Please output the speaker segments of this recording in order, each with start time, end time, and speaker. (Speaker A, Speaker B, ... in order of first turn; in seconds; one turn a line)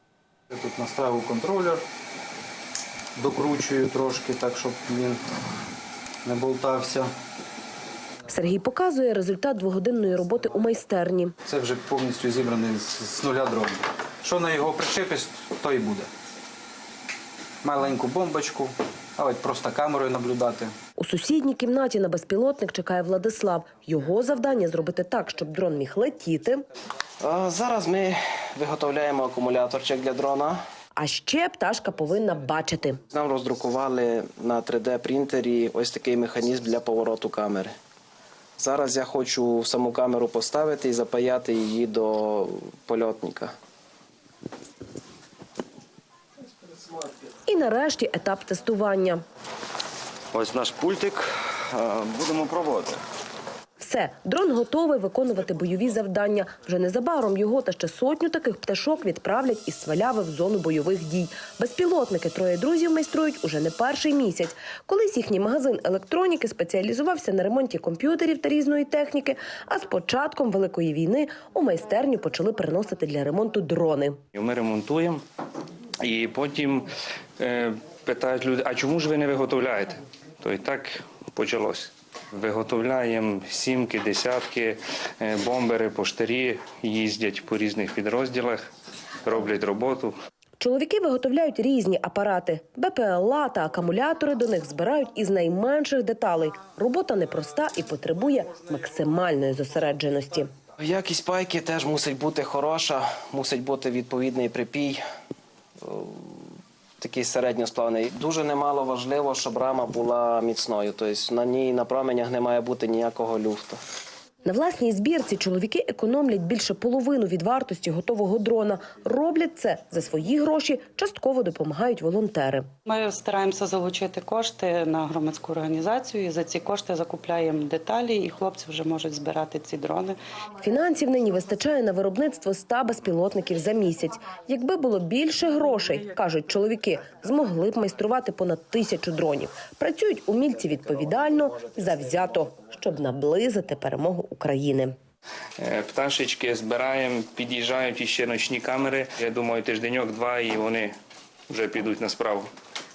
Speaker A: 0.5-1.8
Speaker A: 3.1-5.2
Speaker A: 6.2-7.1
Speaker B: 8.3-11.3
Speaker A: 11.5-16.1
Speaker A: 17.6-20.7
Speaker B: 21.0-26.6
Speaker C: 27.2-30.6
Speaker B: 30.9-33.0
Speaker C: 33.1-37.7
Speaker C: 38.6-43.5
Speaker B: 47.5-49.2
Speaker D: 50.3-53.0
Speaker B: 53.8-74.2
Speaker E: 74.3-75.2
Speaker E: 76.0-76.9
Speaker E: 77.4-88.6
Speaker E: 89.2-90.1
Speaker B: 90.6-100.5
Speaker C: 100.8-105.0
Speaker C: 105.8-106.4
Speaker C: 107.0-113.8
Speaker B: 114.4-122.7
Speaker F: 122.9-130.2
Speaker B: 130.6-144.9
Speaker E: 145.6-150.9
Speaker E: 151.5-152.5